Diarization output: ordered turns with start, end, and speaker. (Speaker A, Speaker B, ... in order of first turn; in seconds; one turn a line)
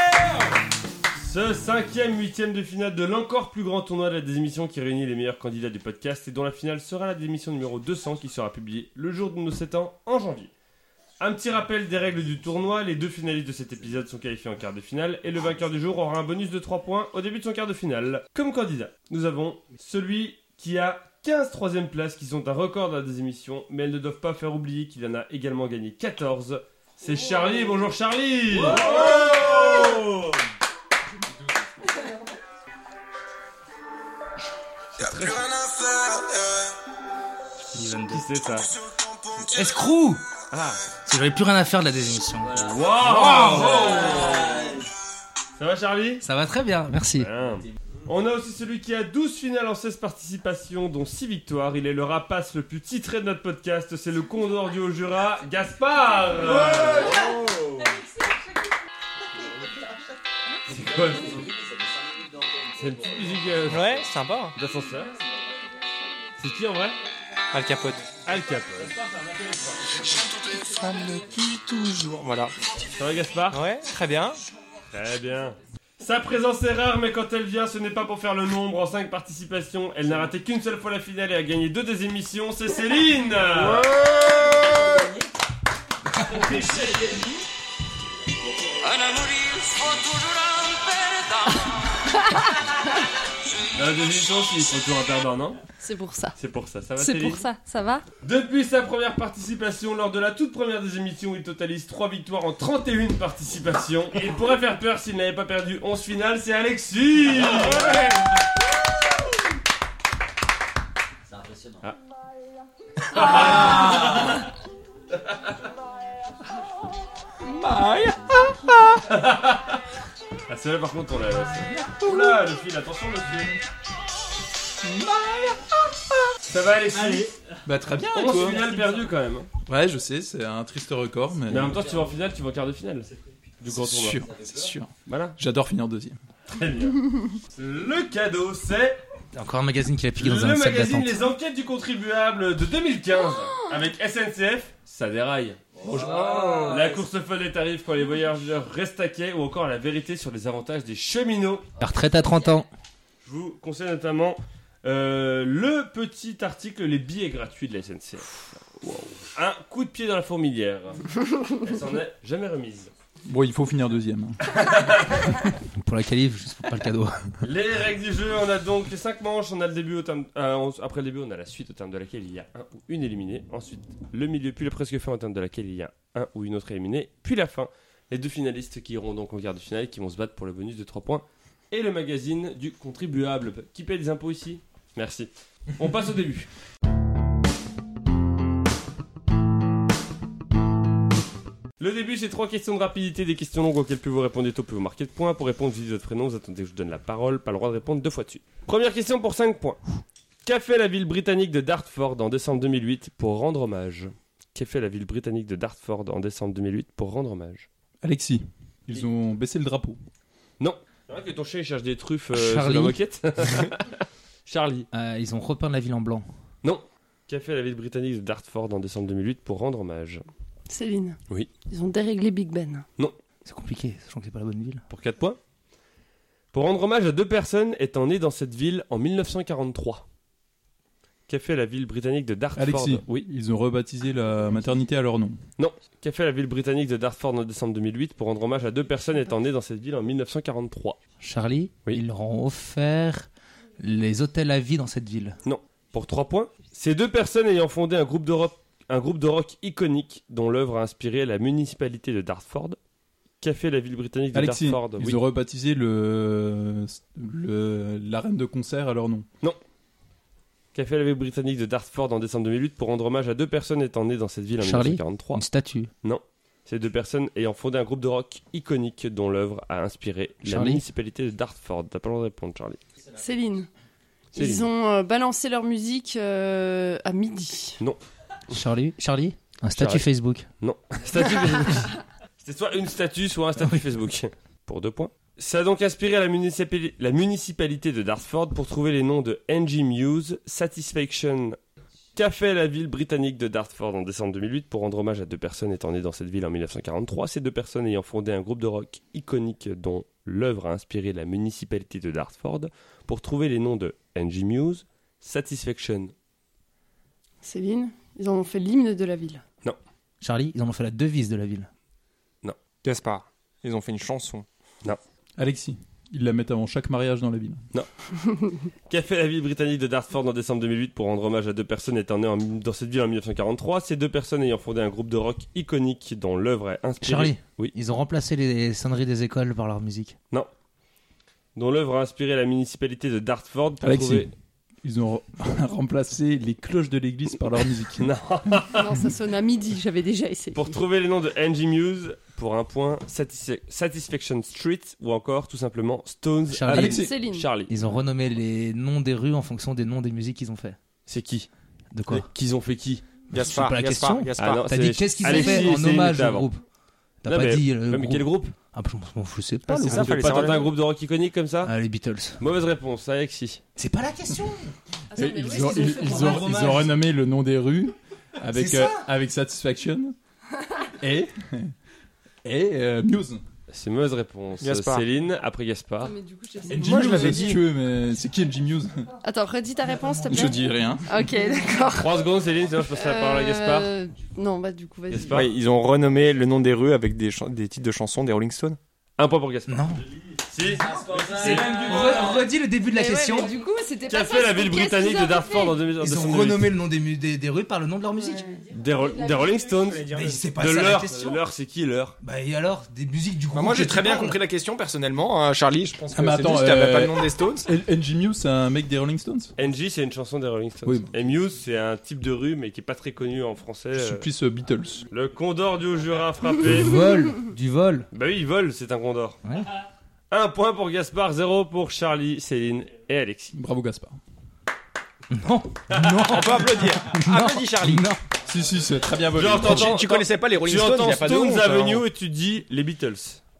Speaker A: 1.2-10.5
Speaker A: 11.2-30.3
Speaker A: 35.0-35.6
Speaker B: 37.7-38.2
Speaker A: 38.0-38.7
Speaker B: 39.4-40.2
Speaker A: 40.5-40.8
Speaker B: 41.0-42.6
Speaker A: 42.5-44.7
Speaker A: 45.6-46.2
Speaker B: 46.2-47.3
Speaker A: 47.2-57.2
Speaker C: 56.7-57.8
Speaker A: 60.7-61.5
Speaker A: 62.8-64.0
Speaker C: 63.6-64.5
Speaker A: 64.5-65.2
Speaker A: 66.4-67.0
Speaker C: 67.5-68.1
Speaker A: 68.2-70.0
Speaker C: 70.5-72.5
Speaker A: 72.9-73.6
Speaker C: 73.5-74.4
Speaker A: 74.9-83.9
Speaker C: 83.5-85.0
Speaker A: 86.3-87.1
Speaker D: 91.5-92.5
Speaker A: 93.7-95.6
Speaker D: 95.8-96.3
Speaker A: 96.4-97.4
Speaker D: 97.0-98.0
Speaker A: 98.2-108.2
Speaker A: 113.1-114.4
Speaker C: 113.3-113.8
Speaker C: 117.4-119.0
Speaker A: 119.1-119.8
Speaker A: 120.5-123.5
Speaker C: 122.0-122.4
Speaker C: 124.8-125.6
Speaker A: 126.5-127.3
Speaker E: 127.6-128.7
Speaker A: 128.1-129.5
Speaker E: 129.7-131.8
Speaker A: 131.5-134.2
Speaker E: 133.7-136.2
Speaker A: 135.1-135.3
Speaker A: 136.5-139.0
Speaker B: 139.3-141.2
Speaker A: 140.2-151.7
Speaker C: 145.9-146.9
Speaker B: 151.8-152.7
Speaker A: 153.2-162.9
Speaker E: 163.2-164.4
Speaker A: 164.5-165.4
Speaker B: 165.5-167.4
Speaker A: 167.4-186.5
Speaker A: 191.8-207.7
Speaker E: 208.0-210.0
Speaker A: 210.6-214.9
Speaker B: 212.3-213.7
Speaker B: 214.9-216.3
Speaker A: 216.6-220.2
Speaker D: 220.7-222.8
Speaker B: 223.4-224.8
Speaker A: 224.9-225.4
Speaker A: 226.5-230.0
Speaker A: 231.3-233.2
Speaker E: 232.6-235.4
Speaker A: 235.6-241.0
Speaker B: 241.2-245.4
Speaker A: 245.4-252.8
Speaker A: 253.4-255.2
Speaker E: 254.3-259.2
Speaker A: 260.7-265.4
Speaker B: 264.6-265.9
Speaker A: 266.0-272.8
Speaker B: 270.4-270.8
Speaker D: 273.1-273.7
Speaker D: 274.3-277.8
Speaker A: 274.3-274.7
Speaker B: 278.5-280.5
Speaker A: 279.8-280.1
Speaker A: 280.6-291.6
Speaker A: 292.1-306.1
Speaker D: 307.4-309.4
Speaker B: 310.2-311.7
Speaker C: 312.8-314.4
Speaker E: 315.4-317.6
Speaker D: 318.2-318.6
Speaker A: 318.9-327.7
Speaker B: 327.0-330.1
Speaker A: 331.6-334.3
Speaker E: 333.8-334.3
Speaker E: 334.8-338.1
Speaker A: 337.9-338.9
Speaker D: 338.8-340.8
Speaker A: 340.5-347.7
Speaker B: 346.5-347.0
Speaker E: 346.7-347.1
Speaker D: 346.8-347.5
Speaker B: 347.7-350.8
Speaker A: 351.1-351.5
Speaker B: 351.9-352.3
Speaker A: 352.1-353.0
Speaker B: 353.3-356.6
Speaker C: 353.3-354.7
Speaker A: 354.4-356.5
Speaker D: 355.3-355.7
Speaker B: 357.2-360.4
Speaker A: 357.2-358.5
Speaker C: 359.7-360.8
Speaker A: 359.9-361.7
Speaker B: 361.6-362.4
Speaker A: 362.4-363.6
Speaker B: 363.8-364.7
Speaker D: 365.1-366.8
Speaker E: 365.2-370.1
Speaker B: 365.8-366.9
Speaker B: 368.5-369.1
Speaker E: 371.0-371.7
Speaker E: 372.4-373.4
Speaker A: 373.7-376.1
Speaker C: 374.6-375.0
Speaker D: 376.0-377.6
Speaker E: 376.7-379.1
Speaker C: 376.7-377.6
Speaker D: 379.2-382.3
Speaker B: 380.0-380.4
Speaker E: 380.3-381.0
Speaker A: 381.9-383.9
Speaker D: 382.9-385.4
Speaker A: 385.1-385.5
Speaker C: 385.3-388.8
Speaker A: 389.2-392.4
Speaker B: 389.7-390.1
Speaker B: 390.6-393.5
Speaker D: 392.9-395.8
Speaker A: 394.1-396.7
Speaker B: 396.0-398.5
Speaker D: 398.3-398.7
Speaker A: 398.7-402.2
Speaker C: 399.9-400.5
Speaker B: 400.1-401.4
Speaker B: 402.2-404.4
Speaker C: 403.5-407.7
Speaker E: 406.1-409.5
Speaker A: 409.6-414.3
Speaker E: 410.8-411.1
Speaker E: 413.9-415.1
Speaker A: 415.1-417.0
Speaker B: 416.6-418.1
Speaker A: 418.1-419.4
Speaker A: 420.3-423.5
Speaker E: 423.5-424.2
Speaker B: 425.3-428.2
Speaker C: 425.9-428.1
Speaker A: 426.2-426.7
Speaker E: 428.4-429.9
Speaker A: 429.3-433.4
Speaker C: 429.6-432.0